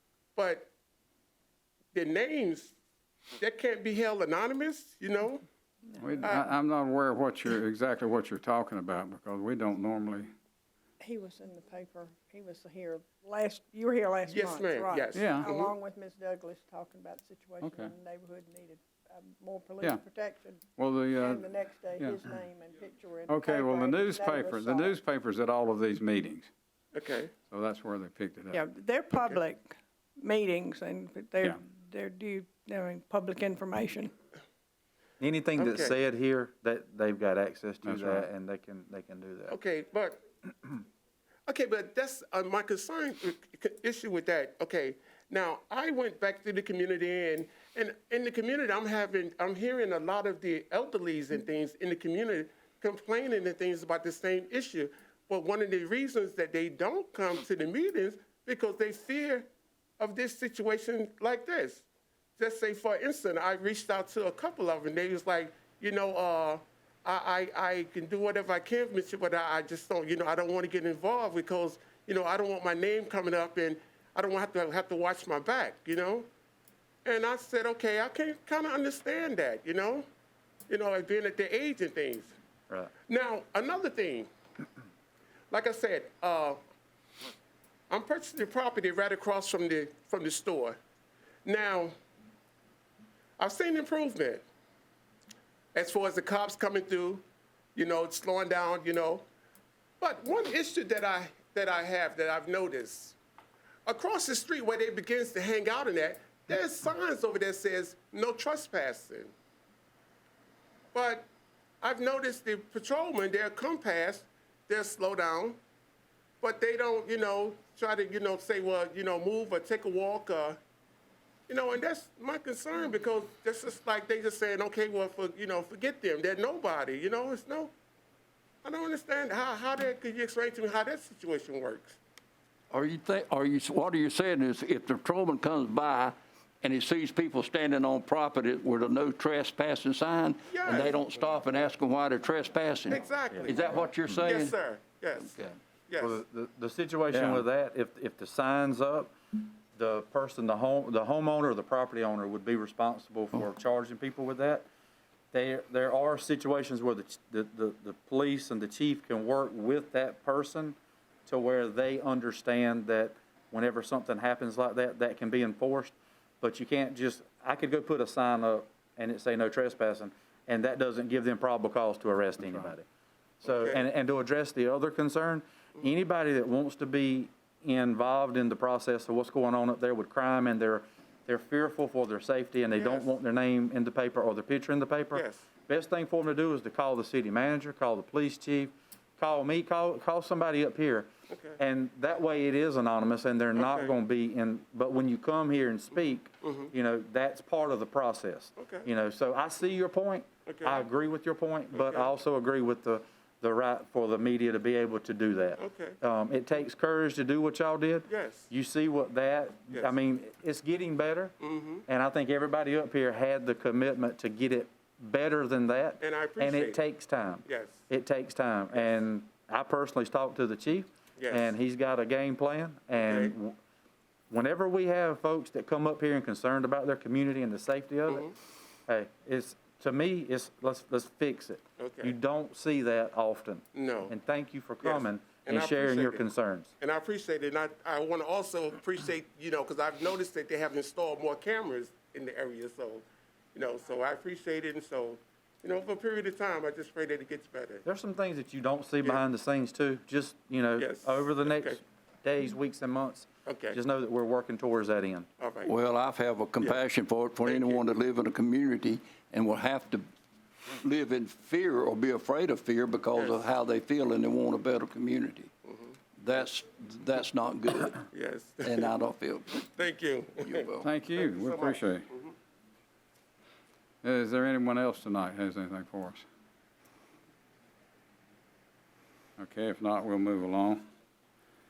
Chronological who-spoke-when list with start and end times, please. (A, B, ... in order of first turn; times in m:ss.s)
0:00.4-0:00.7 A
0:01.9-0:02.7 A
0:03.4-0:05.4 A
0:06.0-0:06.3 B
0:06.0-0:10.3 C
0:06.2-0:06.5 A
0:11.0-0:25.0 B
0:14.3-0:15.7 A
0:15.1-0:15.4 C
0:17.6-0:17.9 C
0:20.8-0:22.3 C
0:23.3-0:26.5 C
0:26.9-0:27.3 A
0:27.5-0:28.6 C
0:28.5-0:34.1 B
0:29.1-0:29.4 A
0:35.2-0:39.6 D
0:35.6-0:35.9 A
0:37.8-0:38.3 C
0:39.5-0:40.2 A
0:41.5-0:59.5 A
1:00.0-1:01.8 A
1:02.4-1:16.3 A
1:17.0-1:20.1 A
1:20.7-1:22.4 A
1:23.1-1:24.3 A
1:25.5-1:26.6 A
1:27.9-1:30.8 A
1:31.4-1:31.9 A
1:33.4-1:34.4 A
1:35.7-1:39.2 A
1:40.0-1:43.2 A
1:43.8-1:49.3 A
1:50.9-1:51.3 A
1:51.8-1:55.6 A
1:56.4-2:00.6 A
2:01.5-2:07.7 A
2:08.6-2:12.0 A
2:12.7-2:24.6 E
2:20.5-2:20.9 A
2:22.9-2:26.2 A
2:26.0-2:29.1 D
2:29.8-2:34.6 D
2:35.3-2:52.8 D
2:53.4-3:43.6 D
2:53.4-2:53.8 A
3:02.7-3:03.1 A
3:05.1-3:05.4 A
3:11.3-3:11.6 A
3:13.6-3:13.9 A
3:16.4-3:16.7 A
3:18.6-3:18.9 A
3:20.4-3:20.8 A
3:21.7-3:22.1 A
3:25.6-3:26.0 A
3:28.1-3:28.5 A
3:31.4-3:31.8 A
3:36.0-3:36.8 A
3:37.4-3:37.8 A
3:41.2-3:41.5 A
3:43.0-3:43.3 A
3:44.3-3:48.3 D
3:48.9-3:56.7 D
3:51.8-3:52.1 A
3:53.7-3:54.1 A
3:54.8-3:56.3 A
3:56.8-4:07.8 A
4:07.8-4:15.3 D
4:10.8-4:11.8 A
4:13.4-4:13.8 A
4:15.4-4:15.7 A
4:15.6-4:20.0 E
4:17.4-4:17.8 A
4:20.8-4:25.5 E
4:26.2-4:28.1 E
4:28.1-4:28.9 A
4:28.6-4:29.6 E
4:29.7-4:32.3 A
4:30.4-4:30.9 E
4:30.8-4:32.1 C
4:34.0-4:36.2 C
4:39.4-4:40.8 C